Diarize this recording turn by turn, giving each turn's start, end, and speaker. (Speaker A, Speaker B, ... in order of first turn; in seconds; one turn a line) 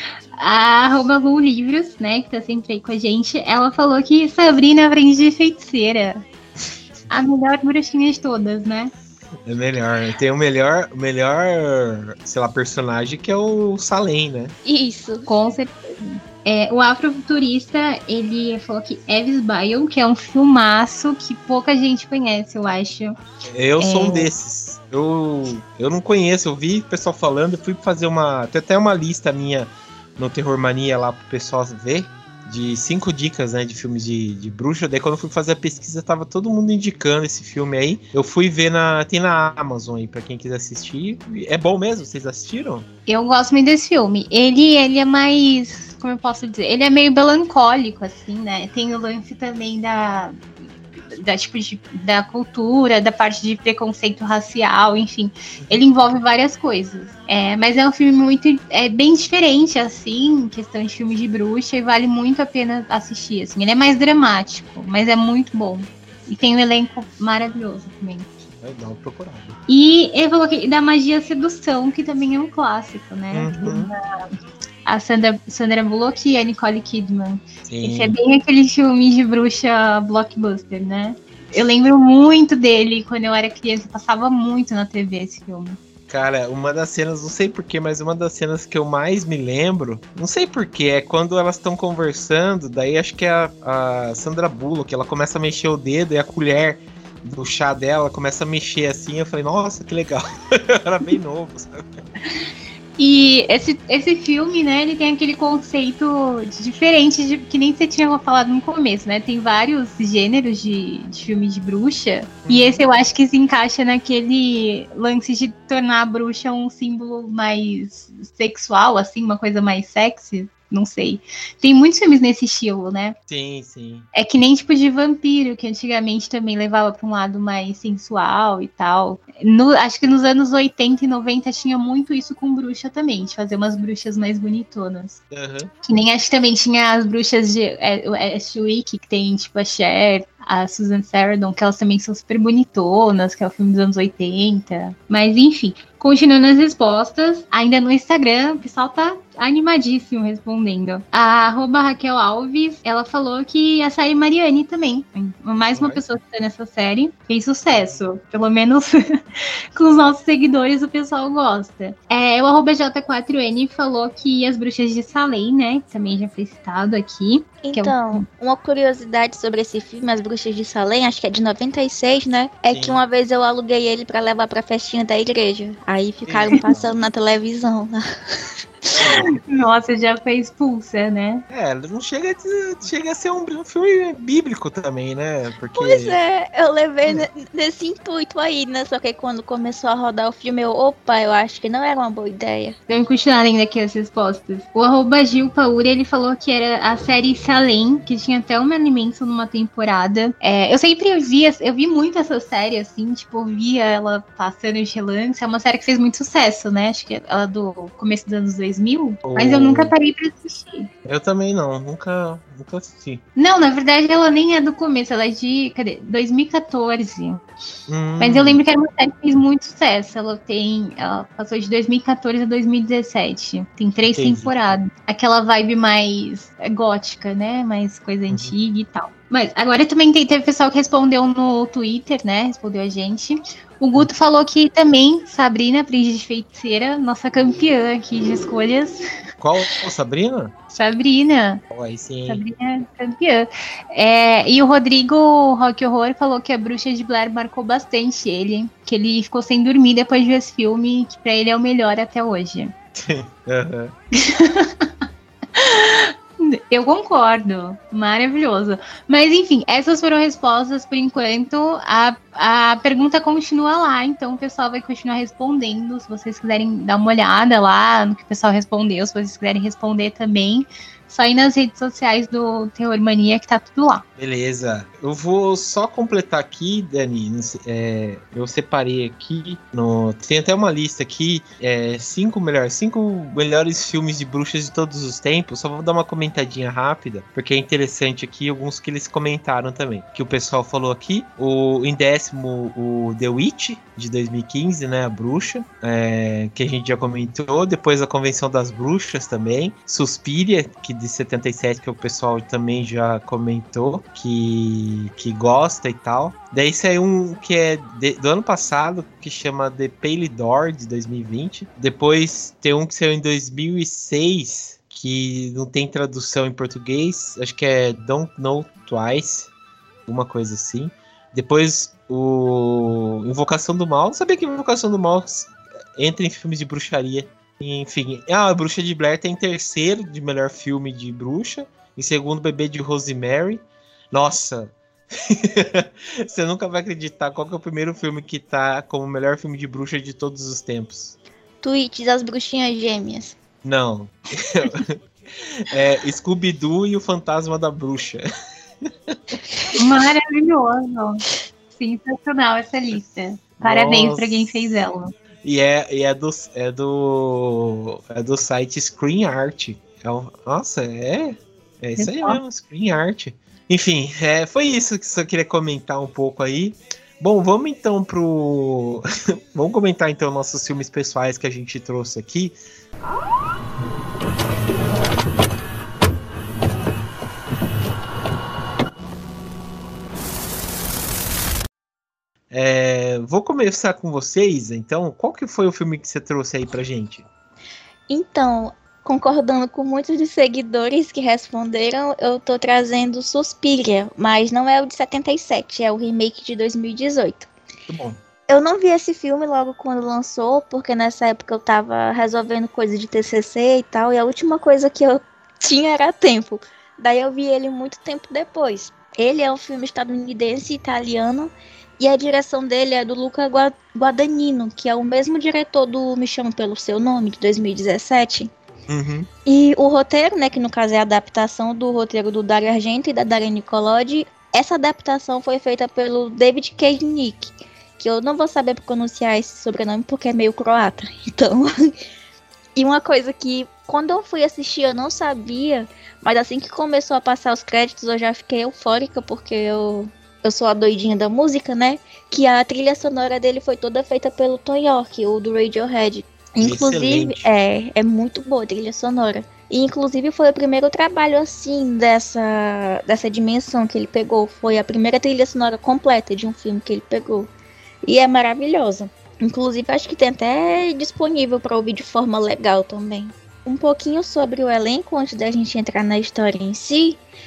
Speaker A: 0.4-6.2
Speaker A: 7.1-8.9
Speaker B: 9.4-14.5
Speaker C: 14.6-15.3
Speaker A: 15.3-23.2
Speaker B: 23.4-42.9
Speaker A: 23.8-24.3
Speaker A: 43.1-50.4
Speaker A: 51.1-68.3
Speaker B: 68.6-69.6
Speaker A: 69.7-74.0
Speaker B: 73.3-73.9
Speaker A: 74.8-85.8
Speaker B: 77.7-78.2
Speaker B: 86.1-102.0
Speaker A: 103.0-123.1
Speaker B: 112.4-112.8
Speaker B: 123.3-124.0
Speaker A: 124.1-135.2
Speaker B: 135.3-135.7
Speaker A: 135.8-168.2
Speaker B: 155.8-156.0
Speaker C: 167.6-178.0
Speaker B: 172.7-173.0
Speaker B: 176.2-176.9
Speaker B: 179.0-179.3
Speaker A: 179.0-181.4
Speaker B: 181.5-186.2
Speaker C: 185.7-192.8
Speaker A: 192.9-210.9
Speaker B: 209.2-209.9
Speaker B: 211.0-213.2
Speaker A: 213.4-217.4
Speaker B: 217.9-218.6
Speaker A: 218.2-239.0
Speaker B: 224.1-224.5
Speaker B: 228.3-228.5
Speaker B: 239.4-240.5
Speaker A: 240.7-241.6
Speaker B: 241.7-242.4
Speaker A: 242.3-252.7
Speaker B: 252.9-253.9
Speaker A: 254.2-254.9
Speaker A: 255.5-274.0
Speaker B: 274.2-319.5
Speaker B: 320.1-341.1
Speaker C: 341.6-343.4
Speaker B: 343.6-348.2
Speaker A: 349.8-355.1
Speaker B: 353.6-354.8
Speaker B: 355.4-372.6
Speaker A: 362.0-362.4
Speaker B: 382.5-387.3
Speaker C: 388.1-397.5
Speaker B: 397.9-398.2
Speaker C: 398.5-418.5
Speaker B: 418.9-419.3
Speaker C: 419.5-431.9
Speaker C: 432.8-457.5
Speaker B: 446.6-447.5
Speaker C: 458.0-467.2